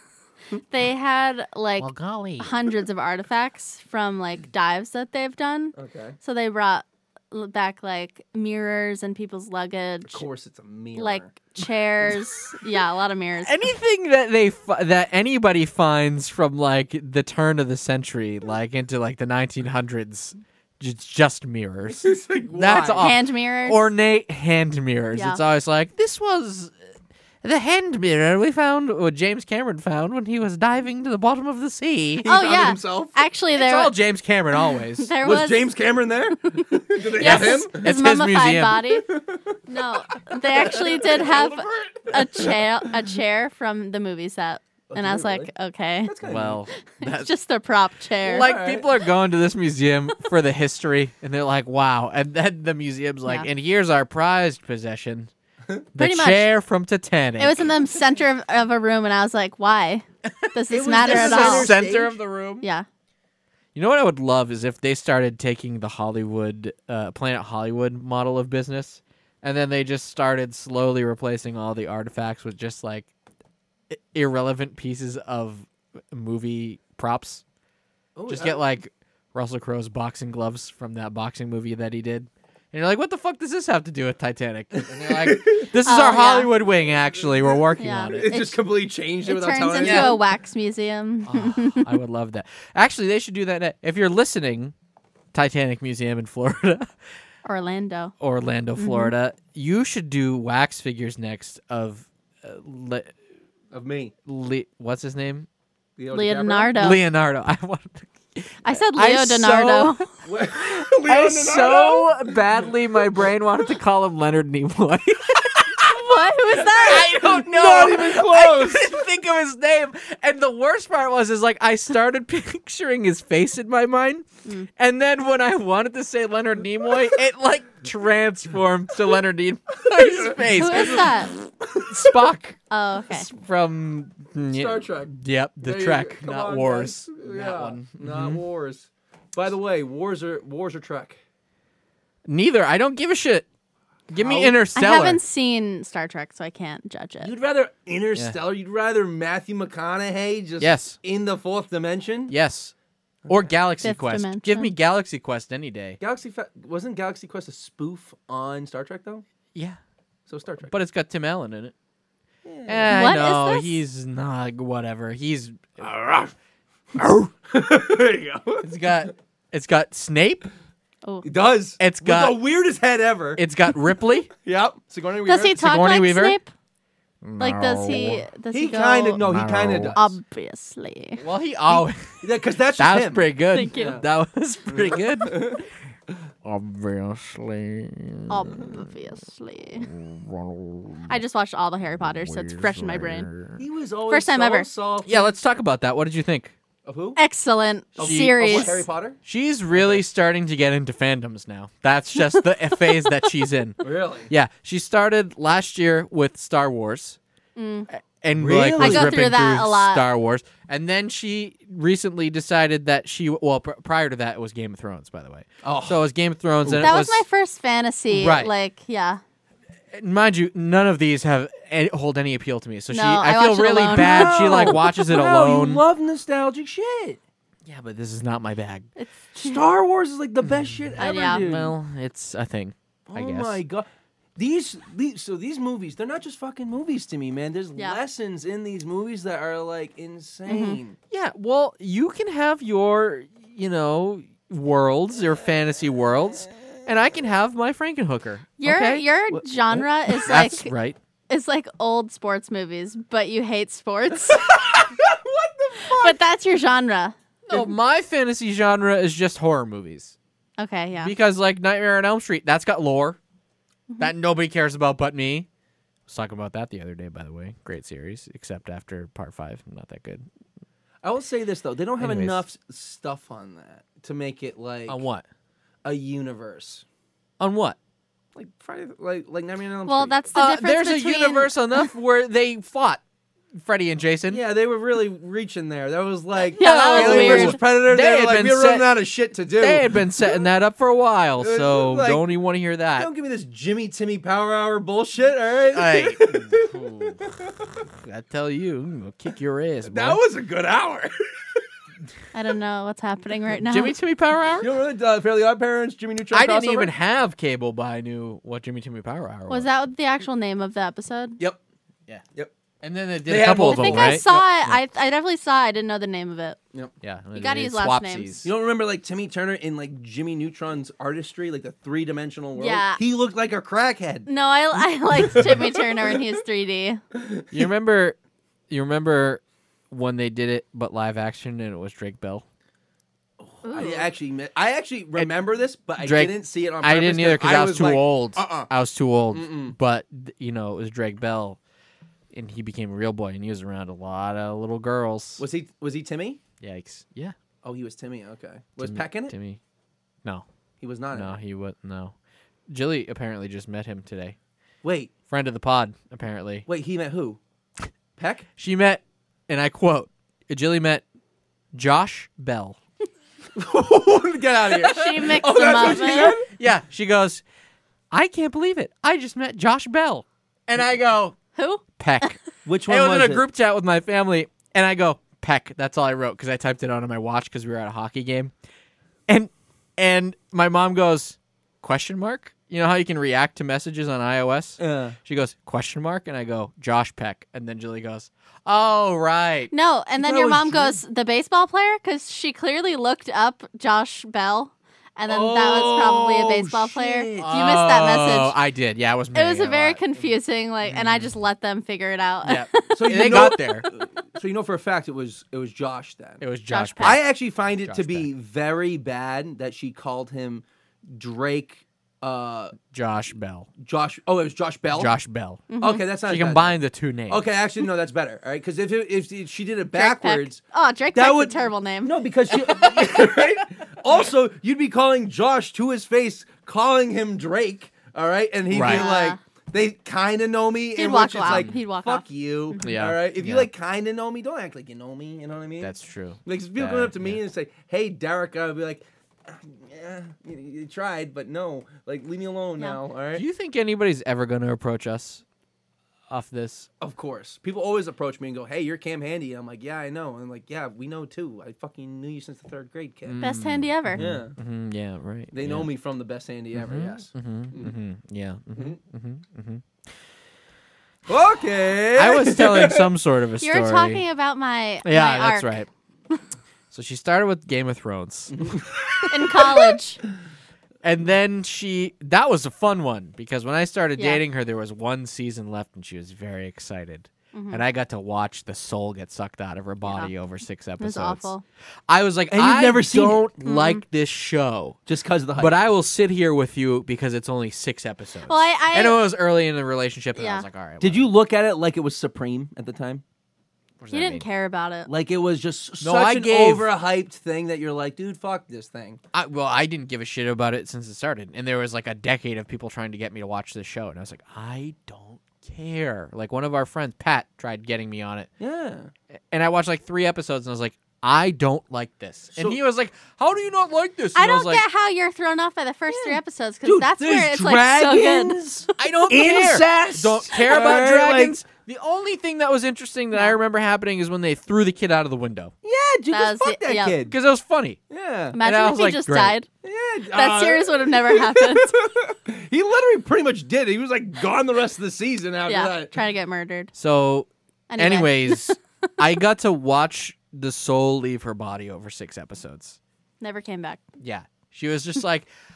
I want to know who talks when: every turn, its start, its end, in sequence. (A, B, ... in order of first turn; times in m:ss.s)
0:00.5-0:01.9 A
0:01.8-0:02.5 B
0:02.4-0:10.2 A
0:05.8-0:06.2 C
0:10.0-0:12.1 C
0:11.0-0:13.5 A
0:13.4-0:26.7 B
0:21.9-0:23.1 C
0:23.0-0:23.8 A
0:25.1-0:25.4 A
0:27.4-0:32.3 B
0:32.2-0:33.1 C
0:32.2-0:33.9 A
0:33.5-0:35.1 B
0:35.0-0:35.8 A
0:35.2-0:37.8 C
0:36.4-0:39.0 A
0:37.2-0:38.9 B
0:39.1-0:43.1 C
0:39.7-0:46.1 A
0:44.9-0:45.5 C
0:46.0-0:46.6 C
0:46.2-0:47.3 B
0:47.0-0:48.5 A
0:48.2-0:48.8 C
0:48.2-0:55.3 B
0:55.9-0:57.6 B
0:56.0-0:56.4 A
0:57.4-1:01.7 A
1:00.4-1:02.7 B
1:00.7-1:02.2 C
1:03.7-1:13.1 B
1:13.9-1:17.4 B
1:18.1-1:18.6 C
1:18.3-1:28.3 B
1:24.8-1:25.7 C
1:25.8-1:26.5 A
1:27.1-1:30.2 C
1:27.8-1:28.6 A
1:29.2-1:32.0 A
1:29.8-1:30.2 B
1:31.2-1:34.7 B
1:35.3-1:36.9 B
1:37.4-1:38.1 A
1:38.2-1:43.1 B
1:38.8-1:39.1 A
1:43.7-1:44.1 C
1:44.2-1:45.5 B
1:46.0-1:47.0 C
1:46.1-1:47.0 A
1:46.8-1:49.9 B
1:48.6-1:50.1 A
1:50.2-1:53.0 C
1:51.0-1:55.8 B
1:55.8-1:57.2 A
1:56.5-1:59.0 C
1:56.8-2:11.2 B
2:09.9-2:12.2 C
2:10.6-2:11.3 A
2:11.7-2:12.6 B
2:12.7-2:13.3 A
2:13.1-2:18.4 B
2:14.5-2:21.2 C
2:22.2-2:23.4 B
2:24.1-2:25.2 B
2:24.2-2:24.6 C
2:24.7-2:27.3 A
2:27.2-2:32.3 C
2:30.6-2:31.0 B
2:32.3-2:32.7 B
2:33.2-2:33.5 C
2:33.3-2:36.0 B
2:33.8-2:34.7 A
2:36.0-2:39.2 C
2:39.5-2:39.8 B
2:40.3-2:40.7 C
2:40.6-2:41.7 B
2:42.4-2:43.0 C
2:42.7-2:45.8 B
2:42.9-2:43.8 A
2:45.8-2:46.3 C
2:46.9-2:49.1 C
2:48.6-2:50.5 B
2:51.2-2:53.4 C
2:51.8-2:52.4 B
2:53.4-2:54.3 B
2:54.4-2:55.6 C
2:55.2-2:56.5 A
2:55.5-2:56.4 B
2:57.2-2:58.2 B
2:57.4-2:59.2 A
2:58.5-3:00.1 C
2:59.2-3:00.0 B
2:59.9-3:01.2 A
3:01.2-3:02.2 B
3:02.1-3:04.0 C
3:02.8-3:05.6 B
3:03.5-3:04.0 A
3:04.7-3:05.6 C
3:06.4-3:08.8 B
3:08.3-3:09.9 A
3:09.8-3:11.1 B
3:11.1-3:13.3 A
3:11.9-3:13.6 B
3:13.6-3:15.3 C
3:14.1-3:14.7 A
3:15.0-3:16.5 B
3:16.8-3:17.2 C
3:17.2-3:18.9 A
3:18.0-3:19.2 C
3:18.0-3:27.2 B
3:19.7-3:20.0 C
3:23.8-3:24.3 C
3:27.6-3:27.9 A
3:27.9-3:37.2 B
3:28.4-3:29.2 C
3:28.8-3:30.0 A
3:35.6-3:36.0 C
3:36.6-3:36.9 C
3:36.8-3:39.2 A
3:38.1-3:38.5 B
3:39.9-3:45.8 B
3:42.9-3:44.8 A
3:44.0-3:47.2 C
3:47.6-3:48.9 B
3:49.0-3:49.6 A
3:49.4-3:51.7 C
3:50.4-3:53.6 B
3:51.0-3:51.4 A
3:53.1-4:01.0 C
4:00.5-4:00.8 A
4:01.1-4:09.0 B
4:08.6-4:10.7 A
4:09.3-4:10.3 C
4:10.2-4:11.0 B
4:11.3-4:14.5 A
4:14.3-4:16.2 C
4:15.8-4:17.1 A
4:17.4-4:20.1 B
4:20.6-4:21.1 A
4:21.0-4:23.2 B
4:24.0-4:25.5 B
4:26.1-4:30.3 B
4:31.0-4:35.0 C
4:32.0-4:32.4 B
4:34.9-4:35.2 B
4:35.8-4:36.8 C
4:37.4-4:37.8 B
4:38.3-4:40.2 C
4:39.8-4:41.9 A
4:40.3-4:43.0 B
4:43.5-4:44.4 B
4:44.3-4:50.4 C
4:46.5-4:47.6 A
4:46.6-4:48.9 B
4:49.6-4:53.1 B
4:51.4-4:52.3 C
4:53.0-4:57.7 C
4:55.7-4:57.2 B
4:58.0-5:00.2 B
4:59.8-5:01.7 C
5:02.3-5:03.9 A
5:03.6-5:04.7 B
5:04.6-5:06.9 C
5:06.3-5:09.7 B
5:09.5-5:11.4 A
5:12.8-5:14.3 B
5:13.2-5:14.5 C
5:13.7-5:16.6 A
5:17.0-5:18.5 B
5:17.4-5:18.3 A
5:18.4-5:24.3 C
5:22.6-5:23.0 A
5:24.3-5:27.0 A
5:25.2-5:26.2 C
5:27.1-5:27.4 C
5:27.5-5:28.2 B
5:28.7-5:32.4 B
5:33.4-5:38.7 C
5:33.6-5:34.1 A
5:36.0-5:41.6 B
5:39.3-5:39.8 C
5:42.3-5:45.4 B
5:45.4-5:46.4 C
5:46.6-5:47.3 B
5:47.6-5:49.3 C
5:48.8-5:49.6 B
5:50.8-5:51.4 C
5:51.1-5:52.1 B
5:52.7-5:54.4 B
5:54.8-5:55.1 C
5:55.3-5:56.6 B
5:56.7-5:57.4 C
5:58.2-5:58.5 C
5:58.6-6:01.0 B
6:01.7-6:02.8 B
6:03.5-6:06.5 C
6:04.7-6:06.3 A
6:06.1-6:07.4 B
6:08.1-6:11.4 B
6:11.6-6:12.3 A
6:12.0-6:18.5 B
6:12.6-6:13.4 C
6:19.3-6:29.7 B
6:24.8-6:25.2 C
6:29.7-6:38.5 A
6:30.1-6:31.0 C
6:35.3-6:37.6 C
6:37.4-6:40.0 B
6:39.3-6:43.9 A
6:42.4-6:43.9 B
6:42.9-6:46.4 C
6:46.4-6:47.2 B
6:46.7-6:47.2 A
6:47.0-6:52.8 C
6:47.8-6:48.3 B
6:52.9-6:53.7 B
6:53.8-6:55.1 C
6:55.0-6:55.6 B
6:55.7-6:56.0 A
6:55.8-7:00.6 C
6:56.2-6:57.5 B
6:59.9-7:02.1 A
7:01.1-7:15.9 C
7:08.7-7:09.1 B
7:08.8-7:09.4 A
7:11.0-7:12.9 A
7:11.4-7:11.8 B
7:12.8-7:13.7 B
7:15.8-7:17.4 B
7:16.4-7:23.4 C
7:23.3-7:25.4 B
7:26.3-7:26.9 B
7:27.0-7:33.4 C
7:33.2-7:35.9 B
7:33.4-7:34.2 A
7:34.1-7:34.6 C
7:35.5-7:37.9 C
7:36.7-7:39.8 B
7:41.3-7:43.1 C
7:42.1-7:44.2 B
7:43.6-7:45.8 A
7:45.0-7:45.9 B
7:46.9-7:48.8 B
7:48.5-7:50.0 C
7:49.3-7:50.2 A
7:51.0-8:01.5 B
7:57.5-7:57.8 A
8:01.0-8:01.6 A
8:02.1-8:05.0 B
8:02.5-8:03.5 C
8:03.6-8:04.0 A
8:05.1-8:05.8 C
8:05.6-8:11.3 B
8:08.5-8:09.2 A
8:10.4-8:10.6 A
8:11.0-8:13.2 C
8:14.0-8:14.4 B
8:14.1-8:15.1 A
8:15.1-8:19.2 C
8:16.0-8:16.9 B
8:19.3-8:28.5 B
8:28.6-8:29.1 C
8:29.5-8:34.8 B
8:32.5-8:32.8 C
8:34.3-8:38.9 A
8:36.1-8:41.6 C
8:39.0-8:45.7 B
8:45.8-8:47.3 C
8:46.3-8:47.2 A
8:47.3-8:48.0 B
8:48.1-8:48.6 C
8:48.5-8:49.7 A
8:48.6-8:49.6 B
8:49.8-8:56.2 C
8:50.3-8:52.0 A
8:55.7-8:56.9 A
8:56.9-9:03.0 B
8:57.9-8:58.8 A
9:03.4-9:04.0 A
9:04.2-9:05.5 B